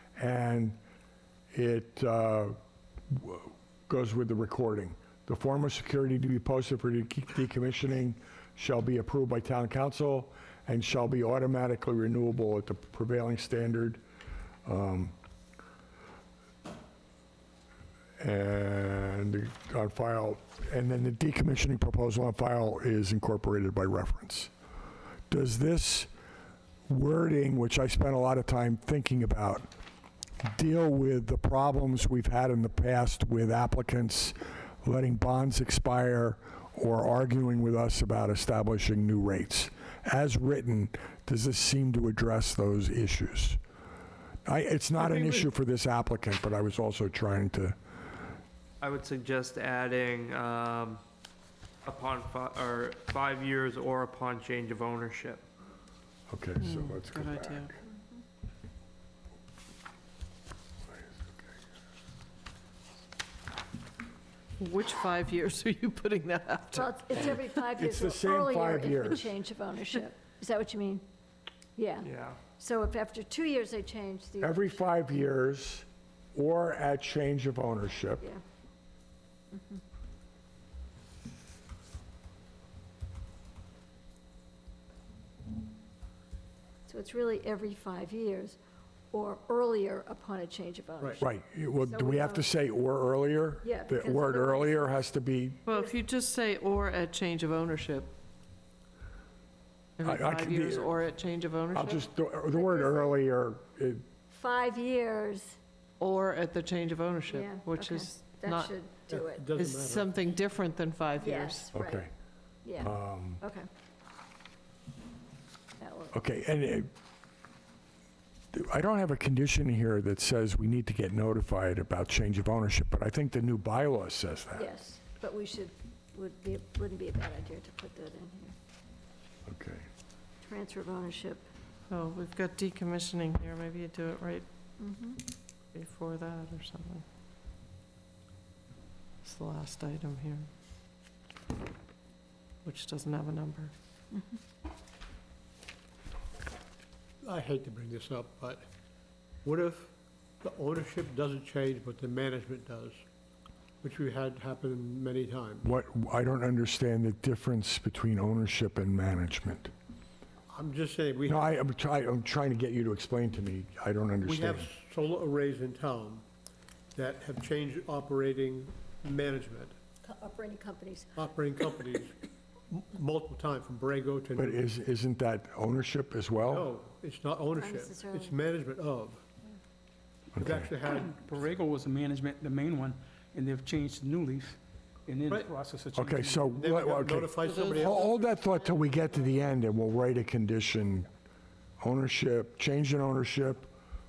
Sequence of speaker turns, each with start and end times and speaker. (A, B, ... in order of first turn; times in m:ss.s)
0:00.2-0:00.8 A
0:01.5-0:02.6 A
0:03.1-0:14.0 A
0:14.6-0:15.1 A
0:18.2-0:24.5 A
0:25.3-0:26.1 A
0:26.9-0:29.7 A
0:30.4-0:43.6 A
0:44.4-0:47.8 A
0:48.8-0:51.0 B
0:51.8-0:55.4 B
0:56.3-0:57.8 A
0:56.6-0:57.7 C
1:04.6-1:06.9 C
1:06.7-1:11.0 D
1:07.7-1:09.3 A
1:11.8-1:14.8 D
1:12.0-1:12.4 B
1:14.4-1:18.2 A
1:19.5-1:19.8 D
1:26.9-1:28.6 D
1:29.1-1:31.3 D
1:31.2-1:35.6 A
1:31.8-1:32.5 D
1:33.6-1:34.9 D
1:35.6-1:38.1 C
1:35.7-1:36.0 D
1:40.0-1:42.1 C
1:40.0-1:40.9 A
1:41.7-1:44.0 A
1:42.5-1:43.1 D
1:44.3-1:45.6 D
1:46.0-1:48.7 C
1:47.3-1:49.5 D
1:49.1-1:50.1 E
1:49.6-1:51.7 C
1:51.2-1:52.1 D
1:51.7-1:52.1 A
1:52.6-1:53.7 D
1:52.8-1:53.4 A
1:55.8-1:56.2 D
1:56.1-1:56.9 A
1:58.5-2:04.7 A
2:04.5-2:08.5 D
2:09.4-2:09.9 A
2:10.4-2:11.4 D
2:11.9-2:14.4 C
2:14.8-2:15.2 D
2:15.7-2:17.0 C
2:19.2-2:20.5 C
2:22.6-2:23.7 C
2:27.2-2:28.6 E
2:29.4-2:33.0 E
2:33.8-2:35.7 E
2:35.6-2:39.7 A
2:40.5-2:41.5 E
2:41.3-2:44.7 A
2:44.2-2:46.2 E
2:46.9-2:49.8 E
2:50.0-2:51.2 D
2:51.2-2:52.1 E
2:52.7-2:54.6 E
2:54.4-2:56.7 A
2:56.5-2:59.2 E
2:57.6-2:58.3 D
3:00.4-3:00.7 A
3:00.4-3:01.1 E
3:01.1-3:06.5 F
3:05.9-3:11.1 A
3:06.5-3:08.2 E
3:07.4-3:07.9 C
3:11.8-3:13.7 A